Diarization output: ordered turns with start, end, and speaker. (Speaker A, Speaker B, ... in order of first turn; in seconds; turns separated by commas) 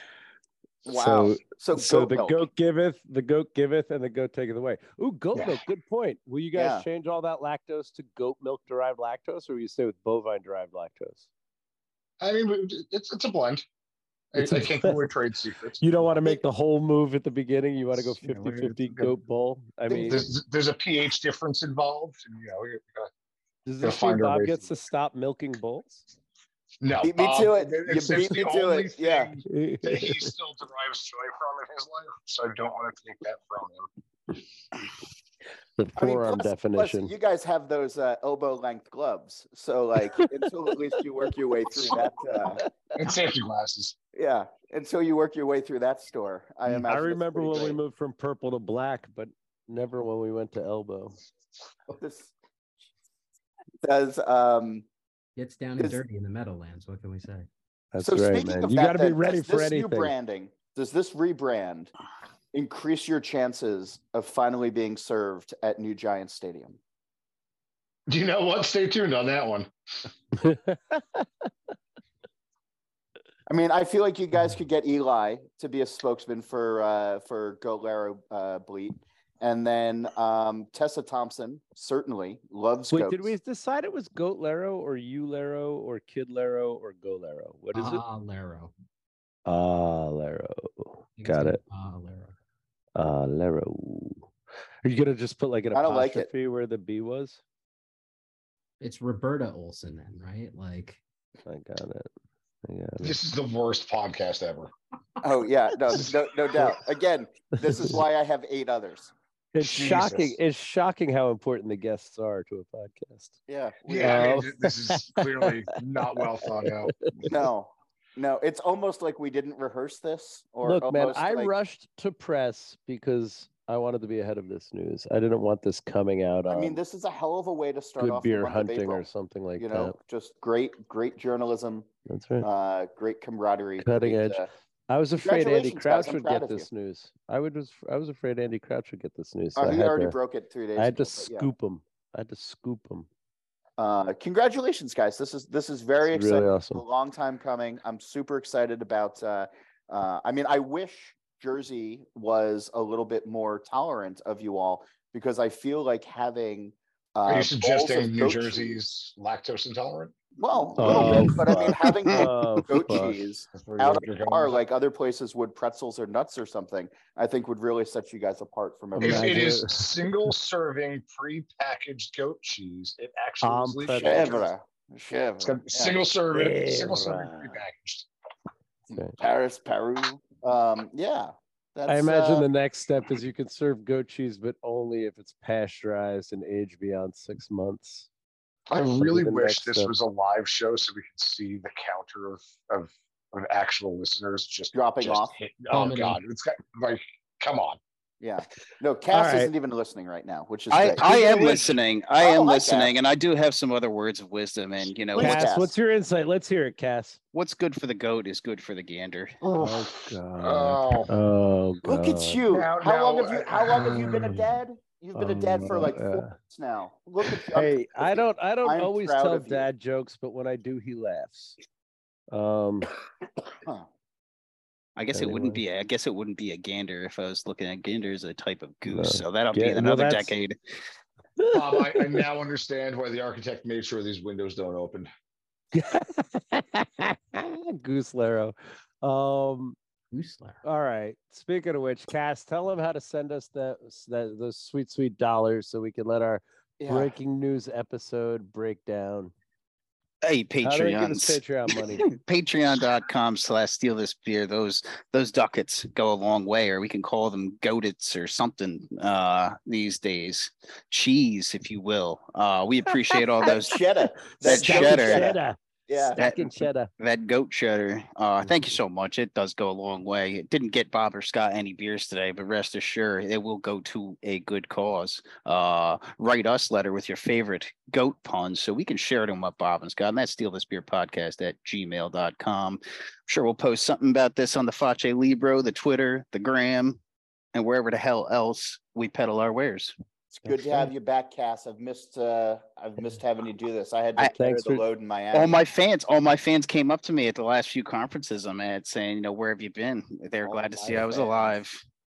Speaker A: 0.8-2.4, Speaker B: 0.9-11.3, Speaker A: 6.5-6.8, Speaker C: 12.2-13.6, Speaker C: 14.3-15.8, Speaker B: 14.4-15.0, Speaker B: 15.8-20.2, Speaker C: 17.9-19.1, Speaker C: 19.9-23.1, Speaker B: 23.6-26.0, Speaker C: 23.8-24.7, Speaker C: 26.8-33.9, Speaker A: 27.0-29.3, Speaker B: 29.5-30.3, Speaker B: 35.8-37.1, Speaker A: 36.0-42.6, Speaker C: 43.0-44.0, Speaker A: 44.1-47.8, Speaker B: 46.8-51.1, Speaker A: 52.0-52.3, Speaker A: 53.8-54.9, Speaker D: 55.4-57.5, Speaker B: 57.9-60.1, Speaker A: 58.0-61.9, Speaker A: 62.5-66.8, Speaker C: 68.1-69.7, Speaker B: 70.4-71.2, Speaker A: 73.5-83.3, Speaker B: 82.9-88.0, Speaker D: 87.7-88.7, Speaker B: 89.5-91.6, Speaker D: 91.2-92.3, Speaker B: 93.0-94.3, Speaker B: 94.8-97.4, Speaker A: 95.7-96.3, Speaker D: 98.8-101.0, Speaker B: 101.5-102.1, Speaker B: 102.6-103.1, Speaker C: 103.0-104.7, Speaker A: 105.2-109.1, Speaker C: 105.9-106.8, Speaker B: 109.5-113.3, Speaker C: 109.6-110.4, Speaker A: 113.5-114.4, Speaker C: 113.9-116.9, Speaker B: 114.0-115.5, Speaker A: 117.3-121.5, Speaker B: 120.6-126.8, Speaker A: 126.5-129.0, Speaker B: 128.0-130.0, Speaker A: 129.6-131.9, Speaker B: 132.1-132.5, Speaker A: 132.4-134.5, Speaker B: 133.8-140.2, Speaker A: 135.2-136.7, Speaker A: 139.6-141.5, Speaker B: 140.8-143.1, Speaker A: 143.8-158.8, Speaker B: 146.1-146.8, Speaker C: 157.2-160.1, Speaker A: 160.4-169.6, Speaker B: 160.8-163.2, Speaker C: 160.8-161.6, Speaker E: 161.8-162.1, Speaker C: 163.5-164.6, Speaker B: 168.9-169.8, Speaker C: 169.0-174.5, Speaker B: 173.4-174.4, Speaker A: 174.0-176.0, Speaker C: 175.4-178.1, Speaker B: 176.3-177.6, Speaker A: 178.9-182.5, Speaker B: 181.9-188.1, Speaker C: 188.7-197.8, Speaker B: 188.9-189.9, Speaker A: 194.7-195.4, Speaker D: 195.7-196.2, Speaker A: 198.2-203.0, Speaker B: 199.1-199.5, Speaker E: 200.7-205.5, Speaker A: 205.1-205.7, Speaker B: 205.2-207.2, Speaker E: 207.3-209.4, Speaker C: 209.4-211.1, Speaker B: 209.6-212.4, Speaker A: 211.8-219.7, Speaker C: 212.5-214.4, Speaker B: 213.8-214.5, Speaker B: 215.1-216.4, Speaker B: 217.5-221.6, Speaker B: 222.3-222.9, Speaker E: 225.0-230.6, Speaker B: 225.1-225.6, Speaker B: 228.9-230.4, Speaker B: 231.4-231.9, Speaker C: 231.5-235.1, Speaker B: 235.7-239.8, Speaker D: 240.1-240.6, Speaker B: 240.6-249.3, Speaker A: 246.8-247.1, Speaker E: 250.2-263.8, Speaker B: 250.6-252.1, Speaker A: 263.5-266.2, Speaker E: 264.4-265.3, Speaker B: 264.4-266.9, Speaker E: 266.1-287.0, Speaker E: 287.5-289.9, Speaker A: 290.3-295.6, Speaker B: 294.2-294.8, Speaker E: 295.3-301.8, Speaker A: 300.4-301.6